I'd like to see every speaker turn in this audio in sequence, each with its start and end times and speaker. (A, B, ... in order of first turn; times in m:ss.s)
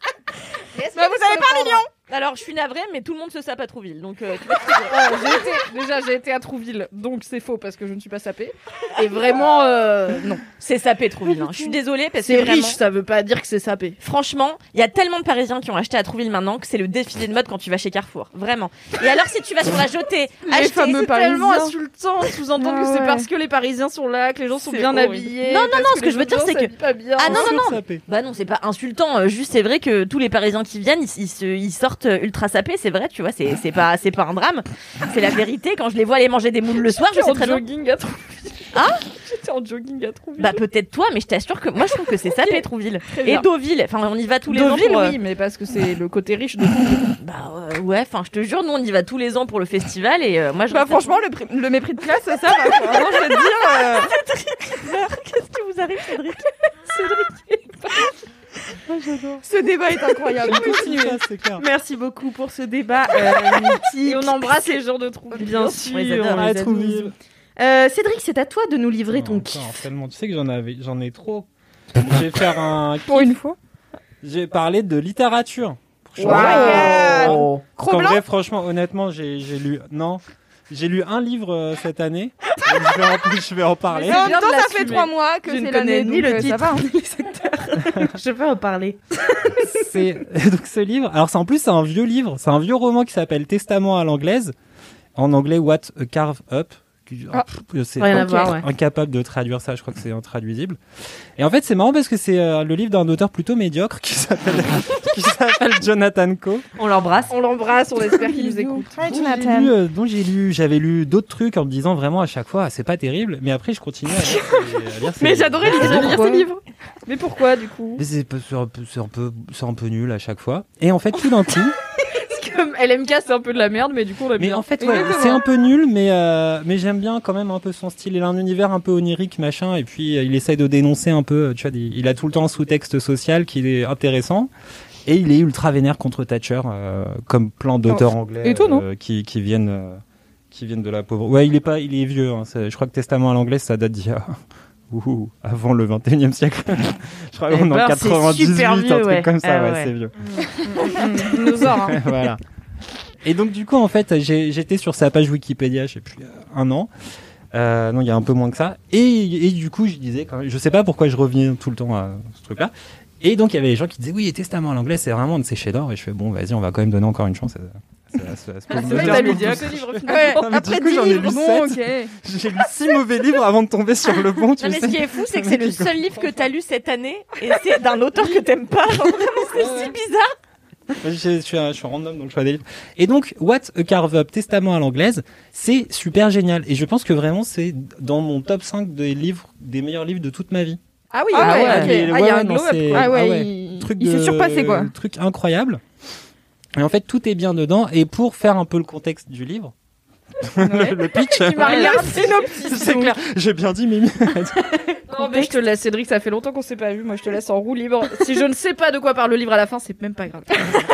0:00.7-0:01.8 A
0:00.9-0:01.9 B
0:02.0-0:05.4 C
0:04.8-0:10.4 A
0:10.6-0:12.8 C
0:12.2-0:14.0 A
0:14.0-0:21.1 C
0:20.5-0:21.7 B
0:20.8-0:27.5 A
0:22.6-0:23.3 B
0:24.6-0:25.2 B
0:25.4-0:37.6 C
0:27.2-0:28.0 D
0:37.1-0:40.6 A
0:38.7-0:39.0 C
0:40.4-0:45.2 C
0:42.4-0:43.5 A
0:44.5-0:47.1 A
0:47.2-0:51.2 C
0:50.7-0:54.1 B
0:52.5-0:56.5 C
0:56.9-0:57.9 A
0:59.4-1:01.2 B
1:00.4-1:01.6 D
1:01.6-1:04.6 E
1:04.0-1:06.3 A
1:05.3-1:09.6 E
1:05.9-1:06.4 C
1:06.3-1:07.1 D
1:09.1-1:11.5 D
1:12.0-1:13.3 D
1:13.0-1:13.6 B
1:14.2-1:24.3 D
1:16.2-1:17.6 E
1:16.2-1:17.4 A
1:16.2-1:18.2 B
1:23.9-1:26.9 B
1:24.1-1:25.1 A
1:24.1-1:24.4 E
1:25.4-1:29.0 E
1:29.6-1:34.5 D
1:35.2-1:40.8 D
1:38.0-1:38.6 E
1:41.4-1:46.6 D
1:46.8-1:47.3 E
1:47.3-1:49.0 A
1:48.2-1:49.7 B
1:49.0-1:56.2 D
1:55.2-1:56.5 B
1:55.7-1:58.0 A
1:58.0-2:01.8 D
2:02.1-2:05.4 A
2:04.4-2:14.5 D
2:04.8-2:05.4 B
2:15.0-2:20.0 D
2:17.8-2:18.8 B
2:20.5-2:24.4 D
2:24.9-2:30.1 D
2:27.5-2:29.8 E
2:30.6-2:32.0 A
2:31.7-2:32.4 D
2:33.2-2:36.9 D
2:37.5-2:56.2 D
2:48.7-2:50.3 E
2:48.8-2:52.1 B
2:48.8-2:50.4 A
2:54.6-3:00.3 C
2:59.5-3:00.0 D
3:01.0-3:10.8 D
3:11.1-3:13.1 A
3:11.3-3:12.1 B
3:11.4-3:11.9 E
3:11.4-3:15.8 D
3:12.9-3:14.9 B
3:16.8-3:19.7 D
3:20.4-3:25.0 D
3:20.6-3:23.0 B
3:21.4-3:23.1 A
3:25.1-3:30.6 A